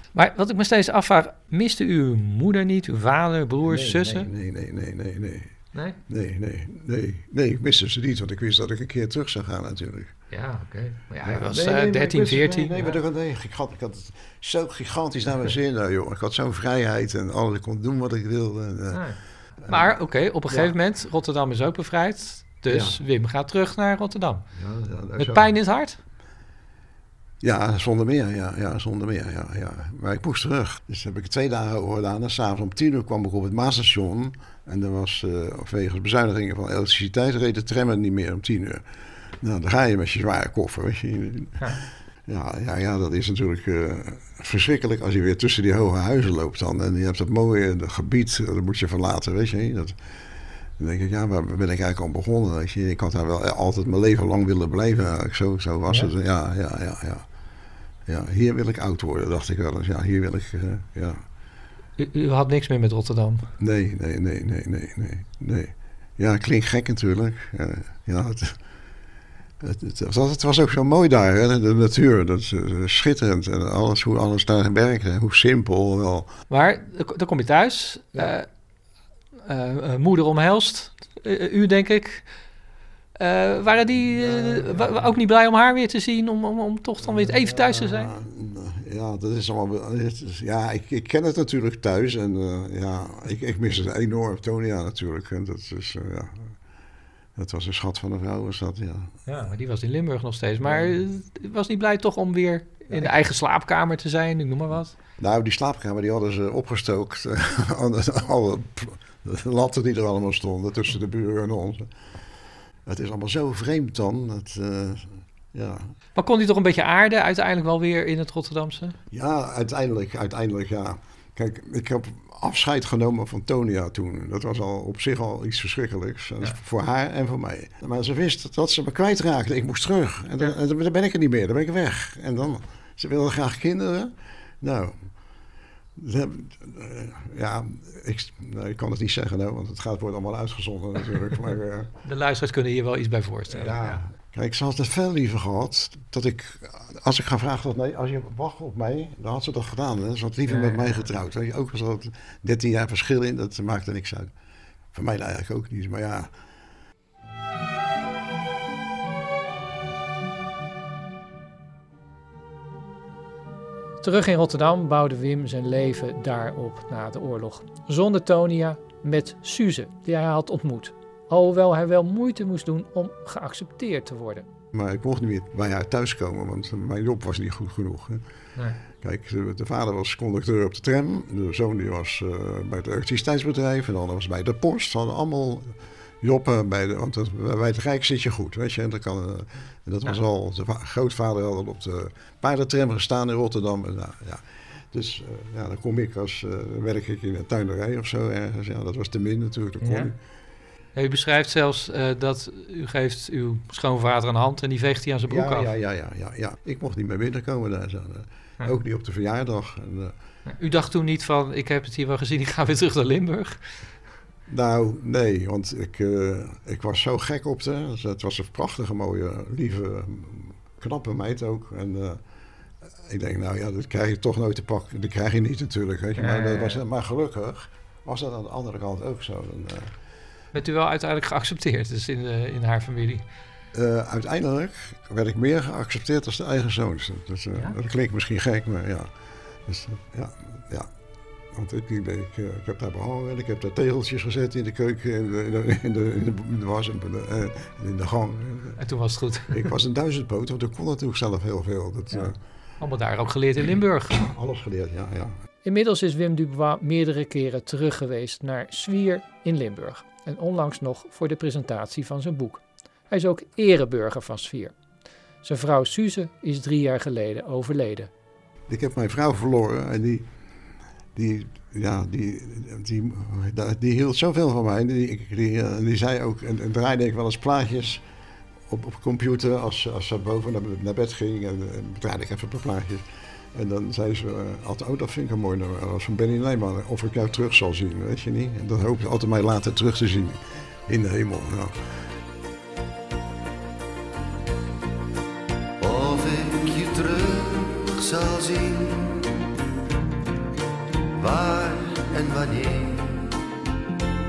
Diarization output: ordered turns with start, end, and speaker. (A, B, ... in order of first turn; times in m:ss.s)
0:00.2-0:04.3 A
0:03.6-0:10.2 B
0:05.7-0:06.0 A
0:10.3-0:13.0 A
0:11.2-0:19.0 B
0:18.9-0:24.4 A
0:19.6-0:19.9 B
0:20.5-0:20.7 B
0:22.7-0:23.0 B
0:24.5-0:25.5 B
0:25.2-0:26.0 A
0:27.4-0:50.0 B
0:50.8-0:57.3 B
0:58.1-1:01.2 B
1:02.0-1:03.5 A
1:03.6-1:08.6 B
1:09.6-1:16.3 B
1:16.5-1:18.5 A
1:19.4-1:22.3 A
1:23.2-1:28.1 A
1:24.2-1:25.1 B
1:27.0-1:36.6 B
1:37.4-1:39.1 B
1:39.3-1:44.9 A
1:40.7-1:40.9 B
1:45.2-1:51.9 B
1:52.9-1:55.9 B
1:56.2-1:59.0 A
1:59.1-2:15.1 B
2:16.0-2:21.9 B
2:22.0-2:24.0 A
2:23.5-2:34.3 B
2:30.5-2:31.0 A
2:34.9-2:36.3 B
2:44.0-2:54.4 A
2:54.7-2:58.2 B
2:58.9-3:20.2 B
3:19.8-3:20.1 A
3:21.0-3:25.7 A
3:25.3-3:30.1 B
3:30.5-3:33.6 A
3:34.5-3:42.2 B
3:43.0-3:49.9 B
3:46.2-3:46.8 A
3:50.5-3:53.2 A
3:53.7-3:59.1 B
3:59.7-4:00.9 B
4:01.5-4:08.8 B
4:08.8-4:09.7 A
4:09.5-4:12.4 B
4:12.1-4:14.2 A
4:14.1-4:15.4 B
4:15.6-4:24.7 A
4:25.4-4:28.1 A
4:28.7-4:30.3 B
4:31.2-4:38.0 B
4:38.7-4:51.8 B
4:55.8-4:59.3 C
5:01.1-5:03.4 C